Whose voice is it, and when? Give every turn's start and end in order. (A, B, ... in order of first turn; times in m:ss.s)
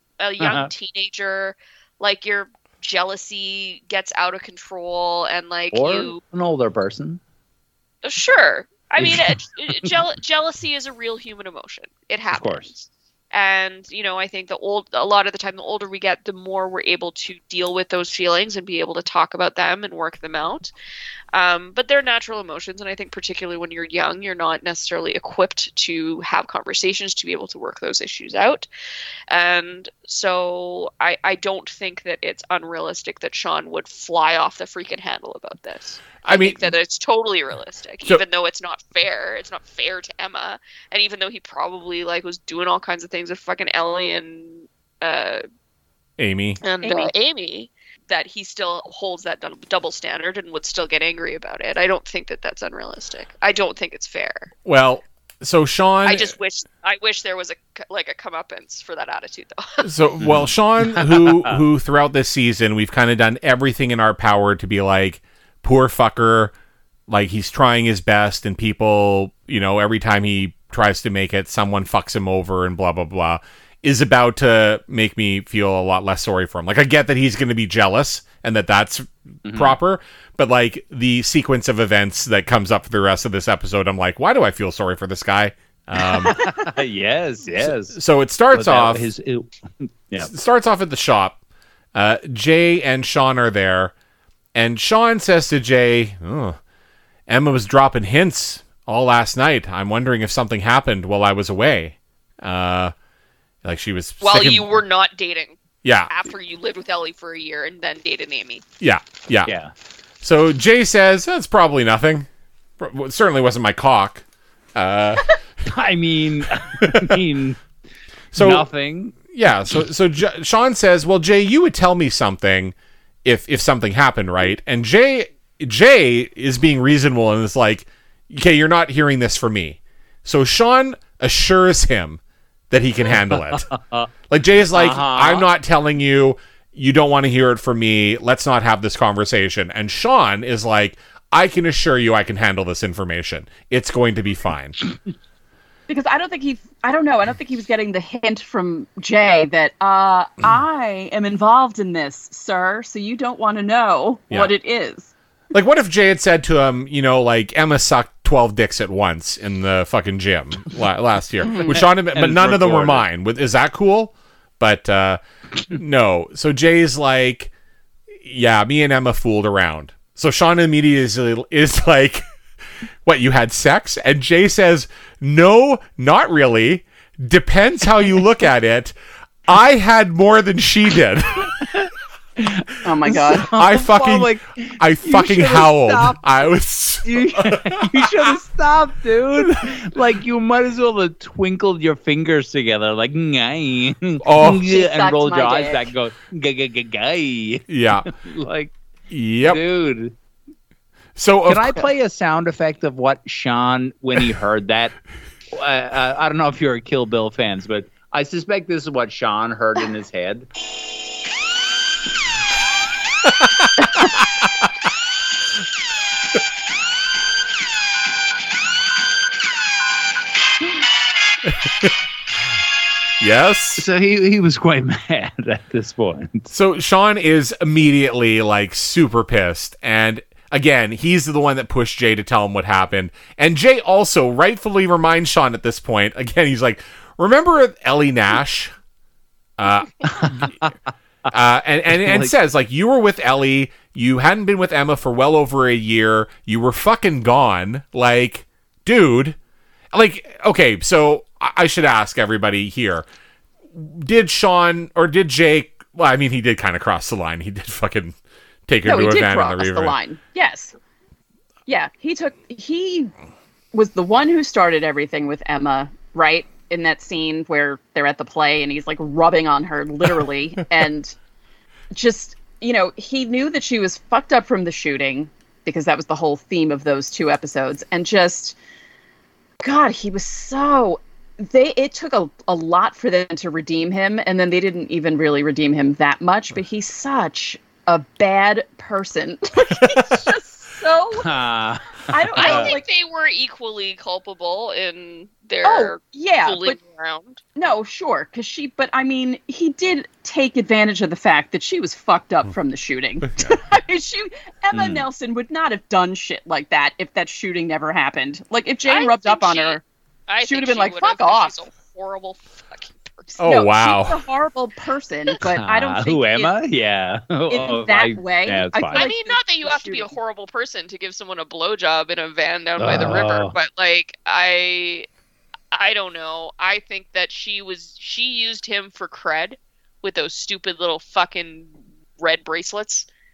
0:00.2-0:06.2 A
0:00.4-0:00.7 B
0:05.7-0:07.2 B
0:08.0-0:20.7 A
0:09.0-0:09.9 B
0:12.3-0:12.7 B
0:21.3-0:28.7 A
0:29.3-0:45.4 A
0:36.2-0:36.7 C
0:46.2-0:46.6 C
0:46.6-0:54.5 A
0:46.8-0:47.1 D
0:54.6-0:56.3 C
0:56.0-0:59.9 A
0:59.8-1:06.5 C
1:00.2-1:01.6 B
1:07.1-1:26.4 C
1:19.4-1:19.8 B
1:26.0-1:28.0 B
1:27.6-1:29.1 C
1:28.5-1:30.3 B
1:30.2-1:31.4 C
1:31.9-1:33.9 C
1:34.5-1:36.6 C
1:37.3-1:42.9 C
1:43.6-1:44.7 C
1:44.2-1:45.6 A
1:45.8-1:46.1 C
1:46.1-1:48.6 A
1:48.8-1:49.5 C
1:49.5-1:49.7 B
1:50.2-1:52.3 C
1:52.8-1:54.2 C
1:54.8-1:55.3 C
1:55.6-1:57.6 B
1:56.8-1:57.2 C
1:58.3-1:58.7 C
1:58.3-1:59.1 B
1:59.3-2:02.7 C
2:03.2-2:13.7 C
2:13.1-2:14.1 B
2:14.3-2:24.8 C
2:14.7-2:15.5 B
2:25.9-2:35.1 D
2:35.5-2:47.5 C
2:41.4-2:41.8 D
2:41.6-2:43.0 B
2:48.2-2:52.2 C
2:53.0-2:58.9 C
2:59.5-3:01.6 C
3:01.6-3:06.2 B
3:02.8-3:03.5 D
3:03.5-3:08.3 C
3:07.0-3:18.7 B
3:14.2-3:14.6 C
3:14.5-3:15.9 D
3:17.7-3:18.1 C
3:19.1-3:19.6 C
3:19.4-3:20.1 B
3:21.2-3:21.9 C
3:21.5-3:24.9 B
3:25.5-3:30.5 B
3:43.2-3:43.8 C
3:43.8-3:46.5 B
3:46.5-3:58.7 C
3:59.6-4:00.5 C
4:00.2-4:00.7 B
4:01.3-4:09.4 C
4:01.9-4:02.3 B
4:09.9-4:13.0 C
4:13.7-4:18.2 C
4:18.7-4:19.9 C
4:18.8-4:20.8 D
4:21.7-4:23.1 D
4:23.7-4:31.1 D
4:31.9-4:38.6 D
4:39.6-4:51.3 D
4:49.8-4:50.2 B
4:51.1-4:52.7 B
4:52.1-4:52.8 D
4:52.4-4:57.4 A
4:55.6-4:56.8 D
4:57.6-5:09.8 D
5:04.7-5:05.0 B
5:08.8-5:13.3 A
5:10.4-5:11.6 D
5:13.4-5:16.5 D
5:13.4-5:14.2 C
5:15.4-5:19.1 B
5:17.5-5:20.1 D
5:18.9-5:25.1 A
5:22.8-5:23.5 B
5:25.7-5:33.1 A